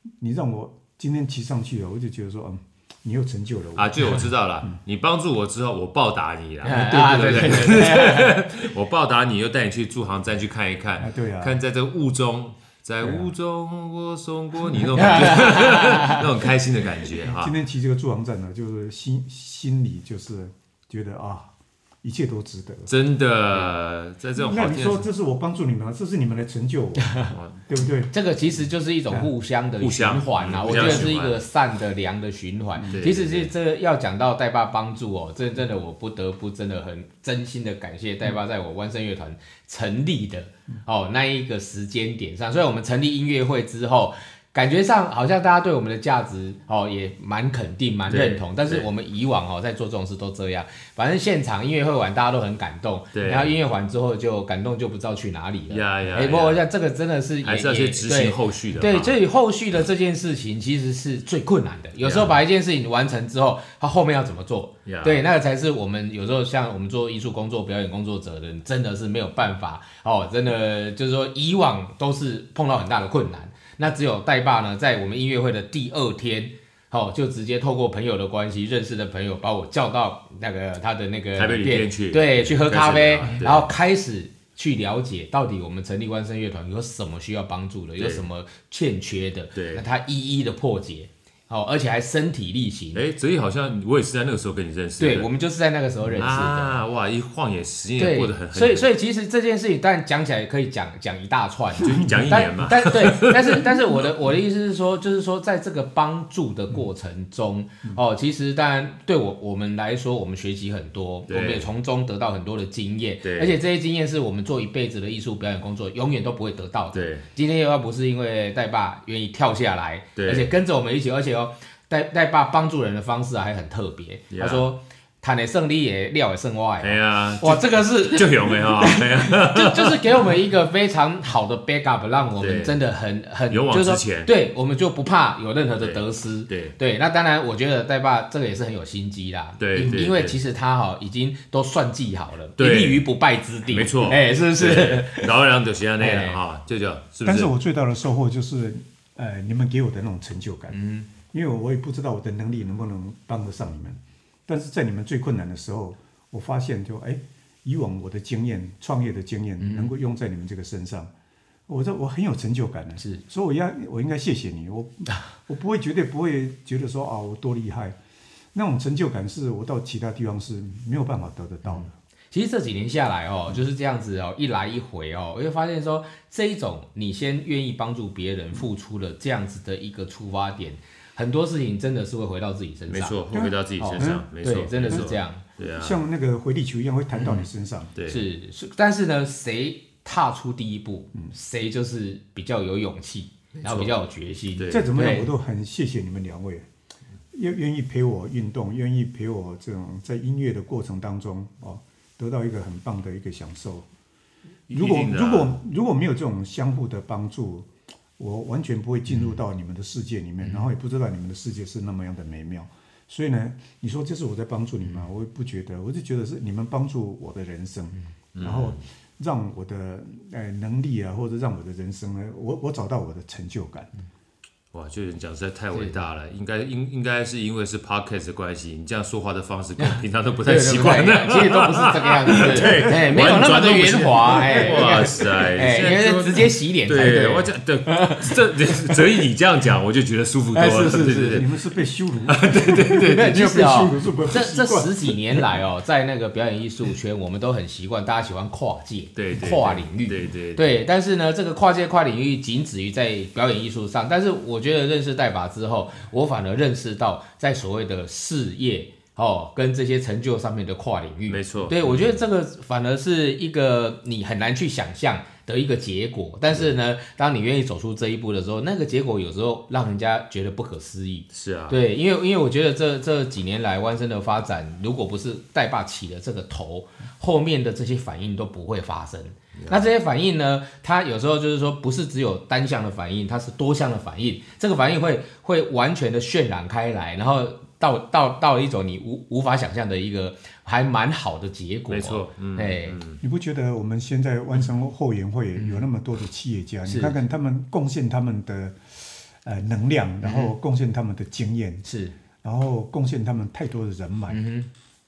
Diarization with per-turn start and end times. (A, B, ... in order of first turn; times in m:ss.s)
0:00.2-0:04.8 A
0:03.8-0:17.5 B
0:06.6-0:08.5 C
0:06.6-0:07.6 A
0:11.0-0:11.6 A
0:13.0-0:13.3 A
0:15.0-0:16.2 C
0:17.2-0:22.9 A
0:22.9-0:25.1 B
0:24.3-0:28.1 A
0:27.3-0:27.6 B
0:28.1-1:33.0 C
0:29.8-0:31.5 B
0:32.8-0:33.0 A
0:32.9-0:33.5 B
0:48.1-0:48.9 B
0:53.1-0:53.5 B
0:55.7-0:56.7 B
0:57.4-0:59.1 B
1:02.0-1:02.4 B
1:04.8-1:05.3 B
1:21.4-1:23.7 B
1:28.0-1:28.3 B
1:29.5-1:29.8 B
1:32.9-1:35.3 B
1:35.0-1:36.8 C
1:36.1-1:38.9 B
1:38.0-2:25.3 C
1:41.8-1:43.7 B
1:42.0-1:42.2 A
1:51.3-1:51.7 B
1:53.2-1:53.6 B
1:56.9-1:57.2 B
2:00.2-2:00.5 B
2:04.3-2:04.6 B
2:06.8-2:10.2 B
2:12.4-2:12.8 B
2:13.5-2:14.3 B
2:15.8-2:16.7 B
2:19.6-2:20.4 B
2:22.6-2:23.0 B
2:23.7-2:27.5 B
2:26.0-2:26.4 C
2:27.2-2:30.8 A
2:30.7-2:31.1 C
2:31.3-2:41.1 A
2:39.6-2:39.9 C
2:41.7-2:48.0 A
2:48.5-2:51.9 A
2:52.3-3:03.2 C
3:02.9-3:06.0 B
3:03.3-3:04.3 A
3:03.8-3:05.4 C
3:05.7-3:07.9 A
3:08.0-3:08.3 B
3:08.1-3:15.3 C
3:13.6-3:13.9 B
3:14.6-3:14.9 B
3:14.7-3:16.6 A
3:17.3-3:23.9 A
3:24.7-3:25.6 B
3:24.7-3:43.9 A
3:38.3-3:38.8 B
3:44.7-4:01.4 B
3:49.8-3:58.3 C
4:00.5-4:01.4 C
4:01.2-4:05.4 A
4:02.3-4:03.8 B
4:03.0-4:53.0 C
4:09.2-4:10.8 B
4:21.3-4:22.2 B
4:31.3-4:31.8 B
4:39.6-4:39.9 B
4:51.9-4:53.2 B
4:53.2-5:01.8 A
4:55.6-4:55.8 C
4:56.8-4:57.2 C
5:00.2-5:00.5 C
5:01.8-5:02.2 C
5:02.4-5:04.4 A
5:04.3-5:04.7 C